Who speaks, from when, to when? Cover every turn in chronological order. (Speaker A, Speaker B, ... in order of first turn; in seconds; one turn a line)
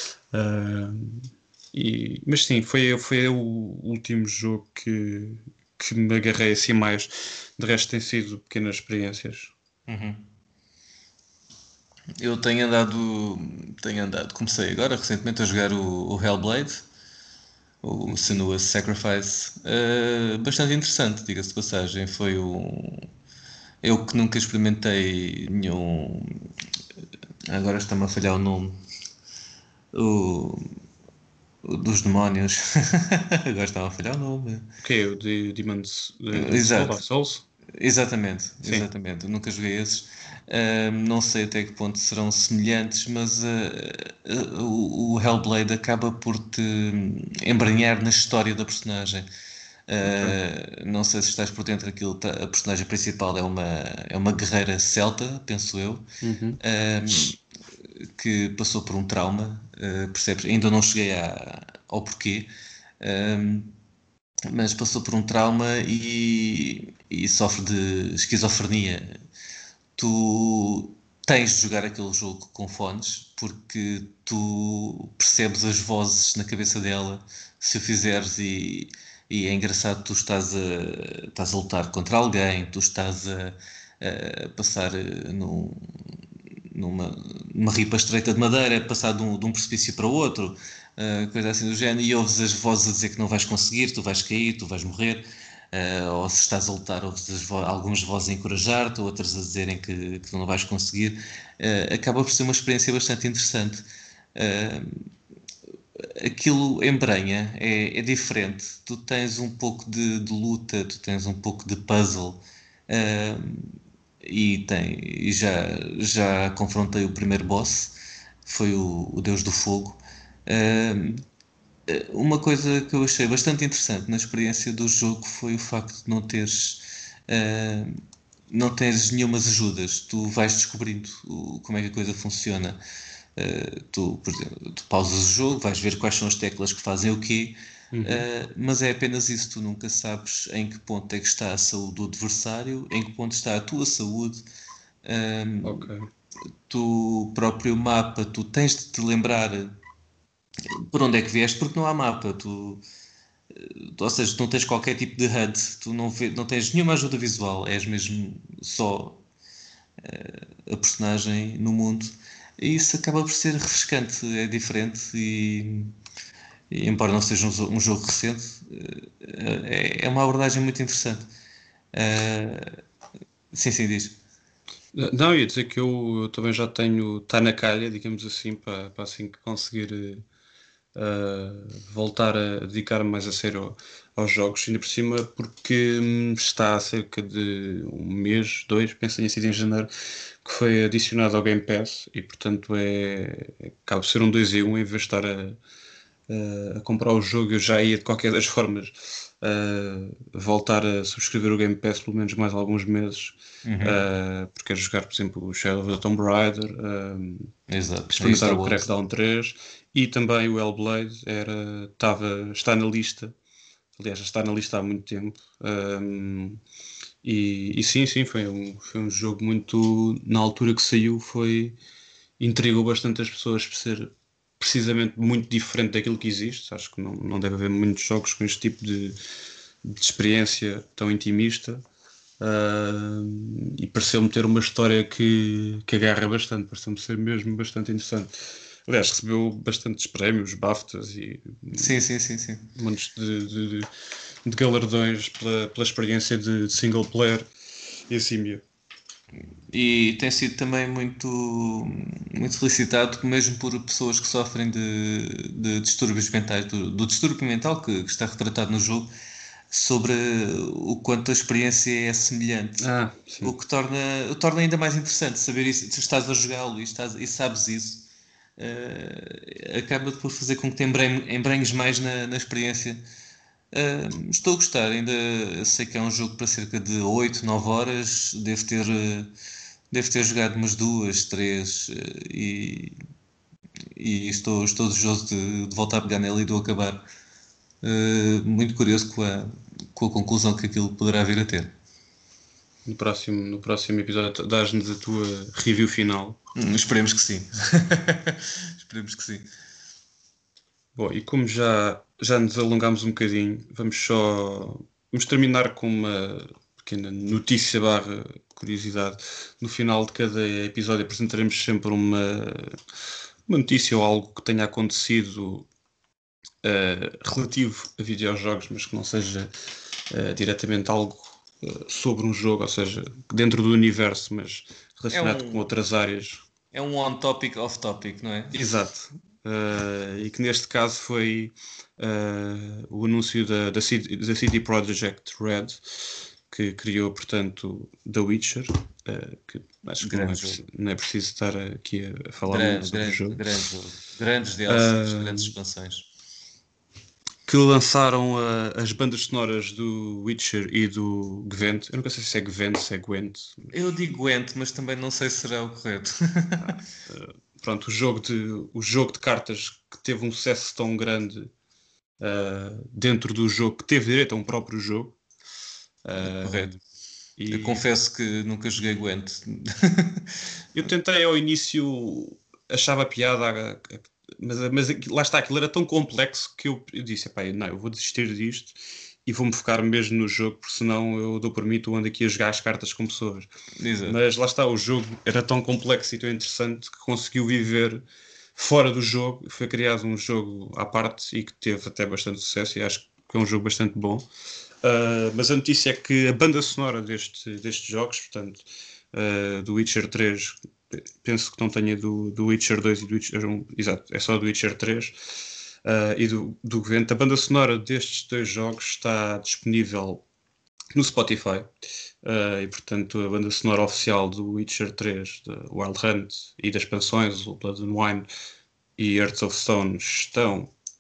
Speaker A: 0.3-9.5
Speaker B: 9.9-10.3
Speaker B: 12.2-16.9
Speaker B: 17.8-23.1
Speaker B: 23.8-26.5
Speaker B: 27.5-28.8
Speaker B: 29.9-30.8
Speaker B: 31.6-34.7
Speaker A: 34.8-37.5
Speaker B: 36.3-37.0
Speaker B: 37.7-49.3
Speaker B: 49.9-56.1
Speaker A: 50.0-50.4
Speaker A: 56.2-56.6
Speaker B: 56.6-63.8
Speaker B: 64.5-69.2
Speaker B: 70.0-105.1
Speaker B: 106.0-118.0
Speaker B: 118.5-121.2
Speaker B: 121.9-128.0
Speaker B: 128.5-132.8
Speaker B: 133.4-144.4
Speaker A: 137.9-138.3
Speaker B: 145.0-145.9
Speaker A: 145.6-146.1
Speaker B: 146.7-149.7
Speaker B: 150.7-152.8
Speaker B: 153.5-159.2
Speaker B: 160.0-166.0
Speaker B: 166.7-171.2
Speaker B: 171.9-172.8
Speaker B: 173.5-174.2
Speaker A: 174.9-180.2
Speaker A: 180.9-189.9
Speaker A: 190.4-195.6
Speaker A: 196.3-207.5
Speaker B: 203.7-204.0
Speaker B: 207.7-208.8
Speaker A: 208.1-213.3
Speaker A: 214.0-216.6
Speaker A: 217.2-221.8
Speaker A: 222.4-229.2
Speaker A: 229.8-231.8
Speaker A: 232.4-242.0
Speaker B: 241.7-242.7
Speaker A: 242.7-243.9
Speaker A: 244.5-247.5
Speaker A: 248.1-248.6
Speaker B: 249.7-259.1
Speaker B: 259.7-262.9
Speaker A: 262.8-263.5
Speaker B: 263.4-273.0
Speaker B: 273.7-279.3
Speaker B: 279.9-283.0
Speaker B: 283.9-287.0
Speaker B: 287.8-291.7
Speaker A: 292.9-296.4
Speaker B: 296.6-299.5
Speaker A: 301.0-312.8
Speaker A: 313.5-315.7
Speaker A: 316.6-319.5
Speaker A: 320.1-326.5
Speaker B: 325.1-325.6
Speaker B: 326.7-328.6
Speaker A: 328.5-343.4
Speaker B: 340.0-340.7
Speaker B: 342.5-346.1
Speaker A: 344.7-345.5
Speaker A: 347.5-353.8
Speaker B: 353.7-356.8
Speaker A: 356.6-361.5
Speaker A: 362.2-365.2
Speaker A: 366.1-366.8
Speaker B: 366.2-366.7
Speaker A: 367.4-367.8
Speaker B: 367.5-370.4
Speaker A: 370.8-383.5
Speaker B: 383.8-384.2
Speaker A: 384.1-388.0
Speaker A: 388.6-394.3
Speaker A: 394.8-405.1
Speaker A: 405.8-410.2
Speaker A: 410.9-411.7
Speaker A: 412.2-418.3
Speaker A: 419.0-420.7